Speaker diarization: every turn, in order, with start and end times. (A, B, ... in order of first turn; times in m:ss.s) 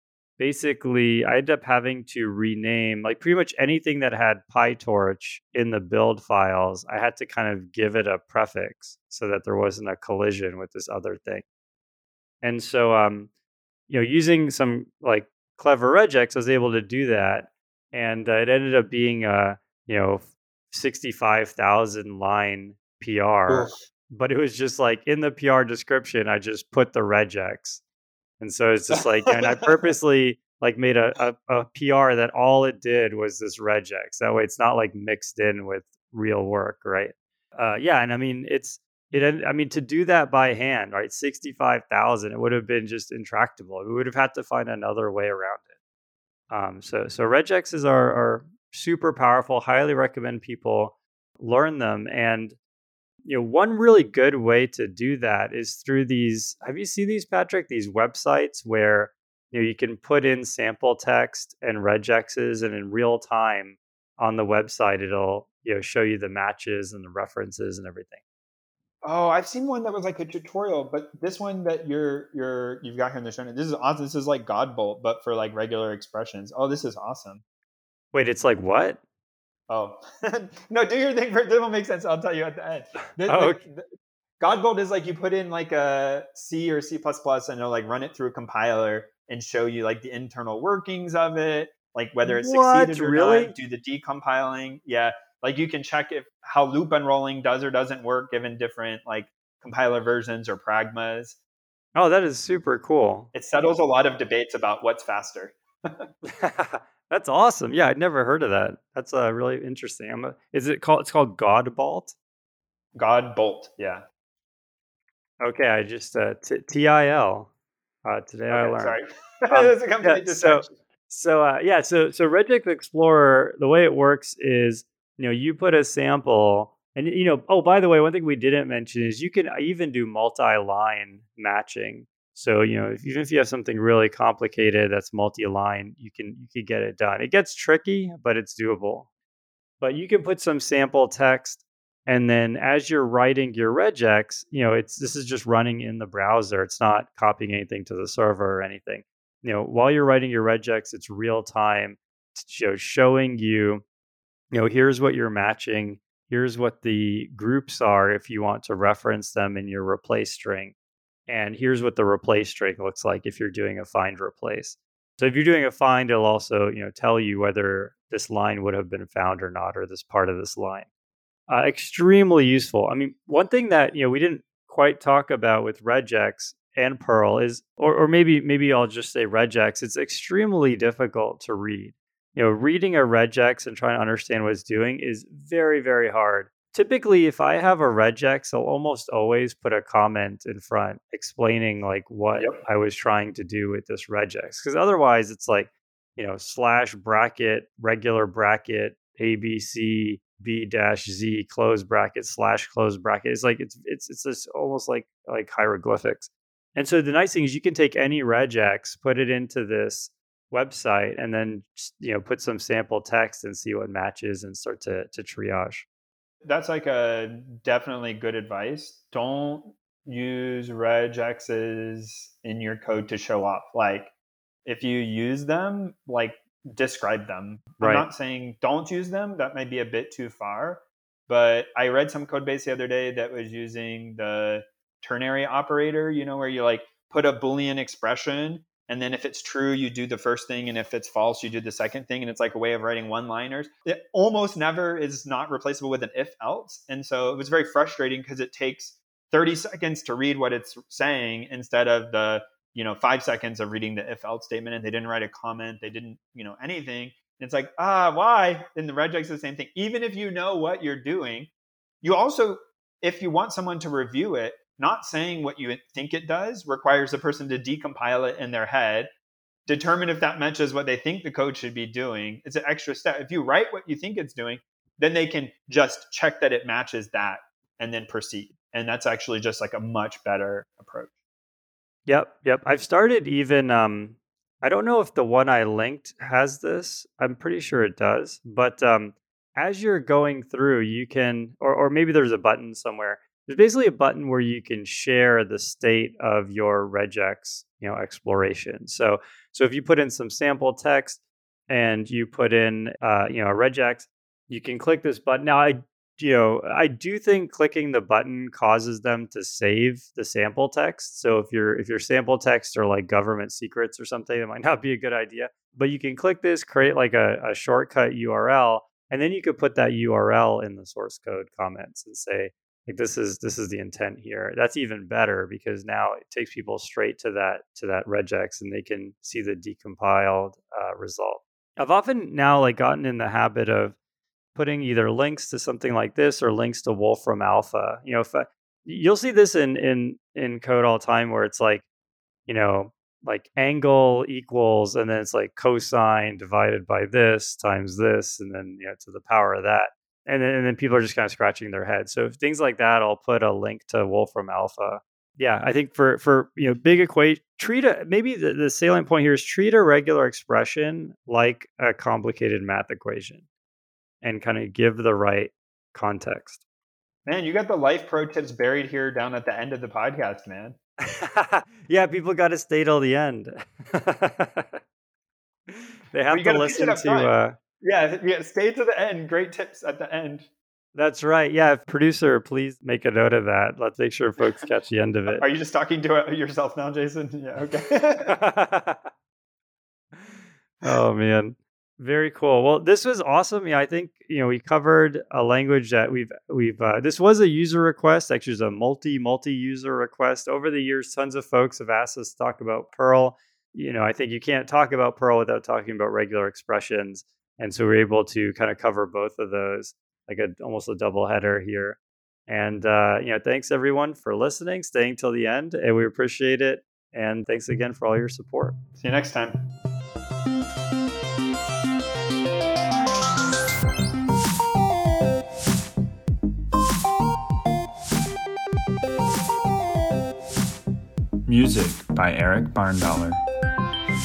0:00.4-0:11.4 A
0:12.4-0:13.3 A
0:13.9-0:27.8 A
0:28.4-0:45.7 A
0:28.9-0:29.8 B
0:46.5-0:52.6 A
0:53.2-1:08.2 A
1:09.0-1:17.4 B
1:18.1-1:19.0 A
1:19.7-1:23.8 B
1:23.2-1:23.6 A
1:24.4-1:41.4 B
1:32.2-1:33.5 A
1:41.9-1:43.3 A
1:43.3-1:46.1 B
1:46.2-1:52.1 A
1:52.9-1:54.0 B
1:55.4-1:57.5 A
1:58.0-1:59.0 A
1:58.5-2:00.7 B
1:59.5-2:19.1 A
2:19.8-2:33.8 A
2:34.5-2:40.7 A
2:41.3-2:50.8 A
2:51.5-3:35.8 A
3:36.4-3:44.1 B
3:44.6-4:21.5 B
3:47.8-3:48.1 A
4:22.0-4:29.1 B
4:29.6-4:41.1 B
4:42.1-5:34.0 A
5:34.5-5:41.8 A
5:42.5-6:03.4 A
6:04.2-6:06.6 A
6:07.2-6:10.8 B
6:11.0-6:14.8 A
6:15.7-6:17.6 A
6:16.3-6:20.5 B
6:20.9-6:25.4 A
6:25.3-6:28.4 B
6:28.2-6:29.1 A
6:30.1-6:58.7 A
6:59.0-6:59.6 B
7:11.5-7:13.4 B